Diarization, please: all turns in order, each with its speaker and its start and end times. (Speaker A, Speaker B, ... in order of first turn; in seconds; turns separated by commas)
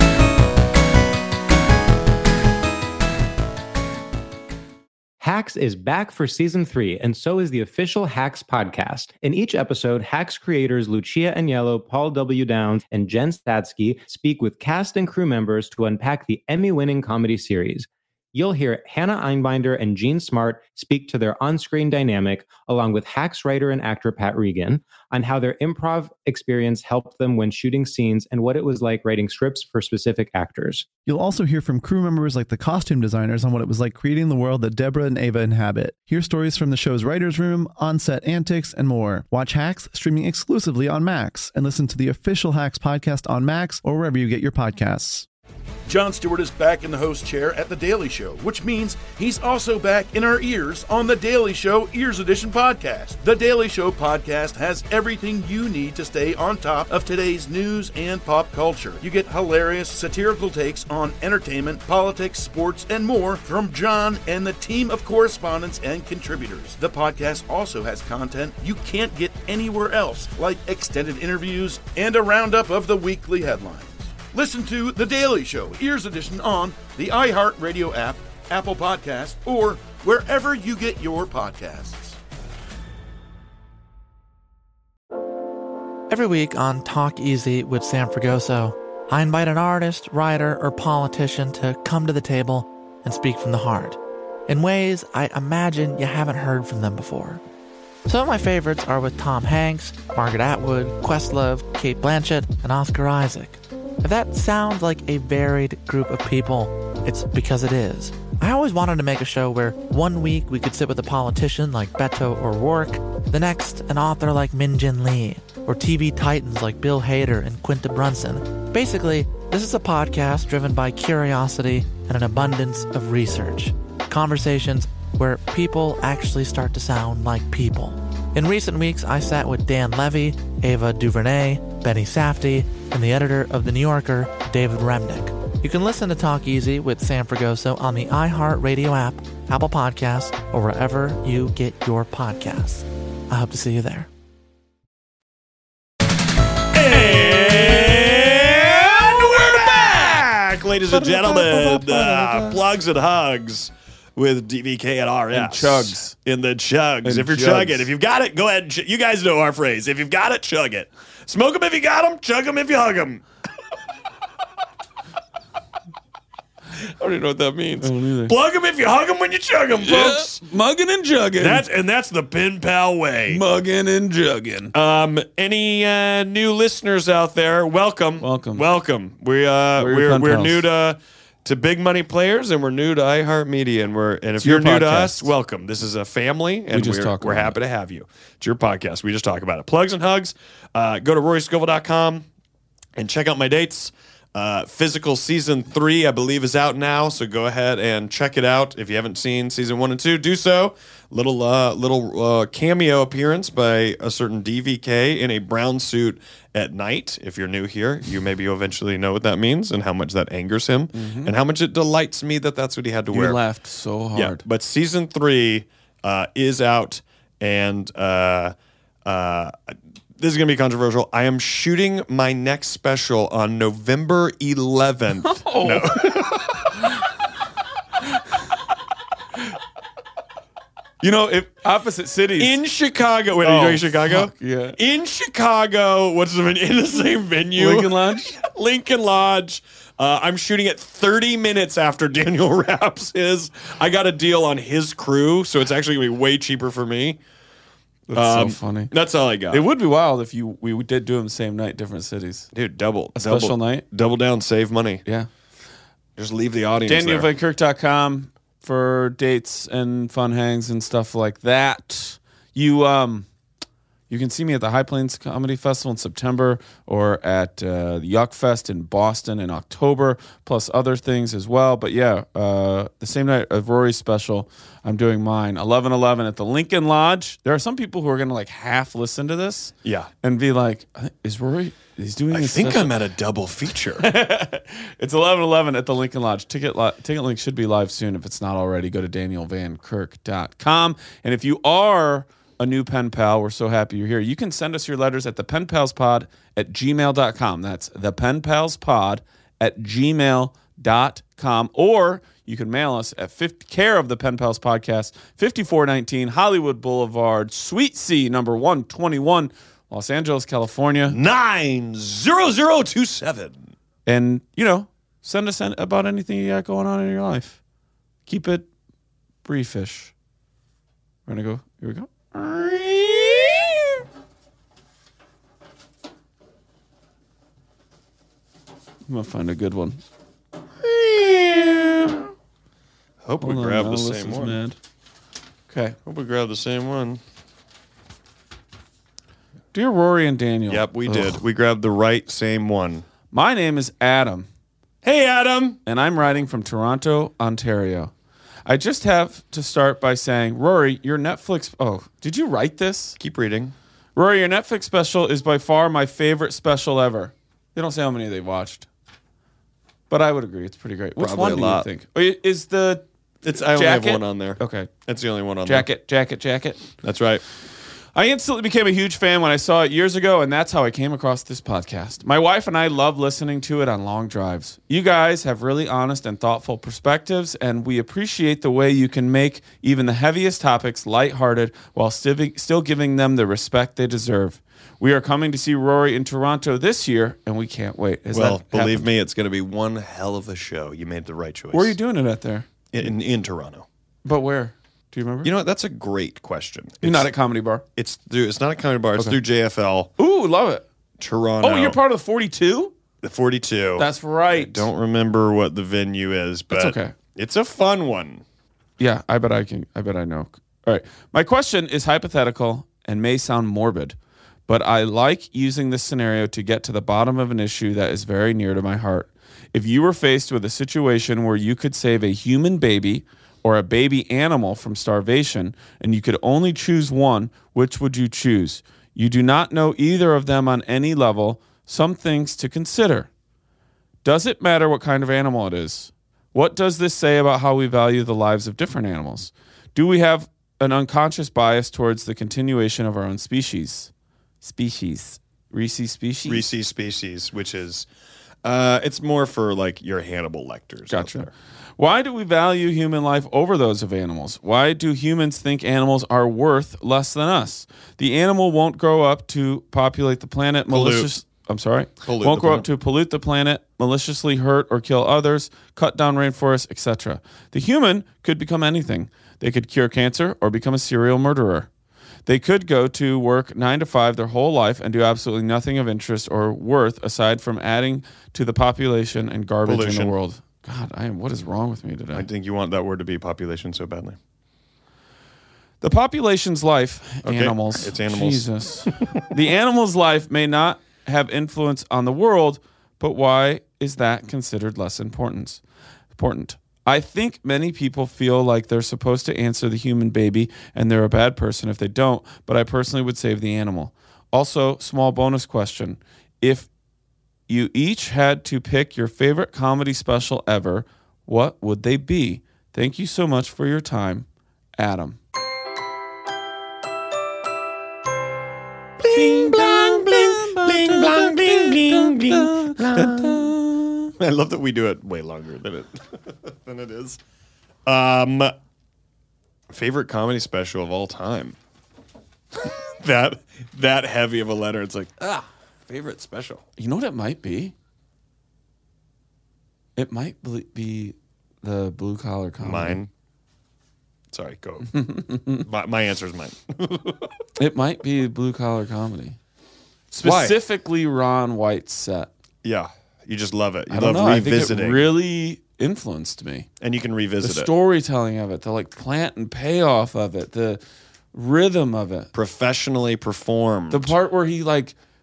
Speaker A: 5.2-30.9, Speaker B: 31.1-45.3, Speaker C: 45.9-82.2, Speaker D: 86.1-97.4, Speaker D: 98.1-144.1, Speaker E: 146.7-163.2, Speaker F: 149.0-150.1, Speaker F: 150.9-152.6, Speaker F: 155.3-156.2, Speaker F: 157.0-157.9, Speaker E: 167.0-170.4, Speaker F: 167.8-168.4, Speaker F: 169.8-171.7, Speaker E: 171.4-173.4, Speaker F: 173.3-174.7, Speaker E: 174.7-192.3, Speaker F: 178.2-178.7, Speaker F: 179.8-180.7, Speaker F: 184.4-185.3, Speaker F: 186.7-187.6, Speaker E: 193.0-213.4, Speaker F: 210.9-211.4, Speaker F: 213.1-214.4, Speaker E: 214.2-218.5, Speaker E: 219.1-226.6, Speaker F: 225.1-226.3, Speaker F: 231.0-232.6, Speaker E: 232.4-247.2, Speaker F: 233.4-234.8, Speaker F: 237.6-238.4, Speaker F: 248.1-248.9, Speaker E: 248.2-249.7, Speaker F: 249.5-252.5, Speaker E: 252.5-255.0, Speaker F: 253.2-253.8, Speaker E: 256.2-257.3, Speaker F: 256.9-263.3, Speaker F: 264.1-283.0, Speaker E: 279.8-280.1, Speaker E: 282.3-284.1, Speaker F: 284.0-311.2, Speaker E: 311.1-313.6, Speaker F: 314.1-317.6, Speaker F: 318.3-318.7, Speaker F: 319.4-320.1, Speaker F: 321.3-323.7, Speaker F: 329.1-330.0, Speaker F: 330.9-332.3, Speaker E: 333.2-334.6, Speaker F: 333.4-334.8, Speaker F: 335.7-336.0, Speaker E: 336.1-337.2, Speaker F: 339.7-341.4, Speaker E: 340.7-343.1, Speaker F: 343.3-344.5, Speaker E: 345.0-345.8, Speaker F: 345.9-348.1, Speaker F: 348.6-353.2, Speaker E: 353.2-353.8, Speaker F: 354.2-358.9, Speaker F: 360.1-363.1, Speaker E: 361.2-361.9, Speaker E: 363.4-365.9, Speaker F: 363.6-364.9, Speaker F: 365.6-366.8, Speaker E: 367.0-367.4, Speaker F: 368.1-389.1, Speaker E: 388.3-392.0, Speaker F: 391.7-392.7, Speaker E: 392.9-393.9, Speaker F: 394.2-395.5, Speaker E: 395.4-397.3, Speaker F: 397.0-397.9, Speaker E: 398.0-400.1, Speaker F: 400.2-400.8, Speaker E: 401.2-402.0, Speaker F: 401.6-402.9, Speaker E: 403.2-408.4, Speaker F: 404.0-404.9, Speaker F: 406.7-407.2, Speaker F: 409.0-414.2, Speaker F: 414.7-433.3, Speaker F: 434.2-446.7, Speaker E: 446.5-448.1, Speaker E: 448.6-451.5, Speaker F: 451.1-471.9, Speaker E: 460.9-461.3, Speaker E: 462.2-462.9, Speaker F: 472.5-482.5, Speaker E: 479.9-480.4, Speaker E: 482.3-484.4, Speaker F: 486.0-506.9, Speaker E: 487.4-488.7, Speaker F: 507.7-514.5, Speaker F: 515.0-515.4, Speaker E: 519.2-523.7, Speaker F: 519.3-524.3, Speaker E: 524.4-527.4, Speaker E: 528.1-528.7, Speaker E: 529.9-531.8, Speaker E: 532.8-536.8, Speaker F: 537.0-537.9, Speaker F: 540.2-543.2, Speaker E: 542.8-543.3, Speaker E: 544.5-545.1, Speaker F: 545.1-545.9, Speaker E: 545.9-547.5, Speaker F: 547.8-549.6, Speaker F: 550.3-552.5, Speaker E: 550.4-550.8, Speaker E: 552.8-555.3, Speaker F: 554.1-556.9, Speaker E: 557.0-557.9, Speaker F: 557.6-561.0, Speaker F: 561.5-562.5, Speaker E: 562.5-564.4, Speaker F: 564.1-565.1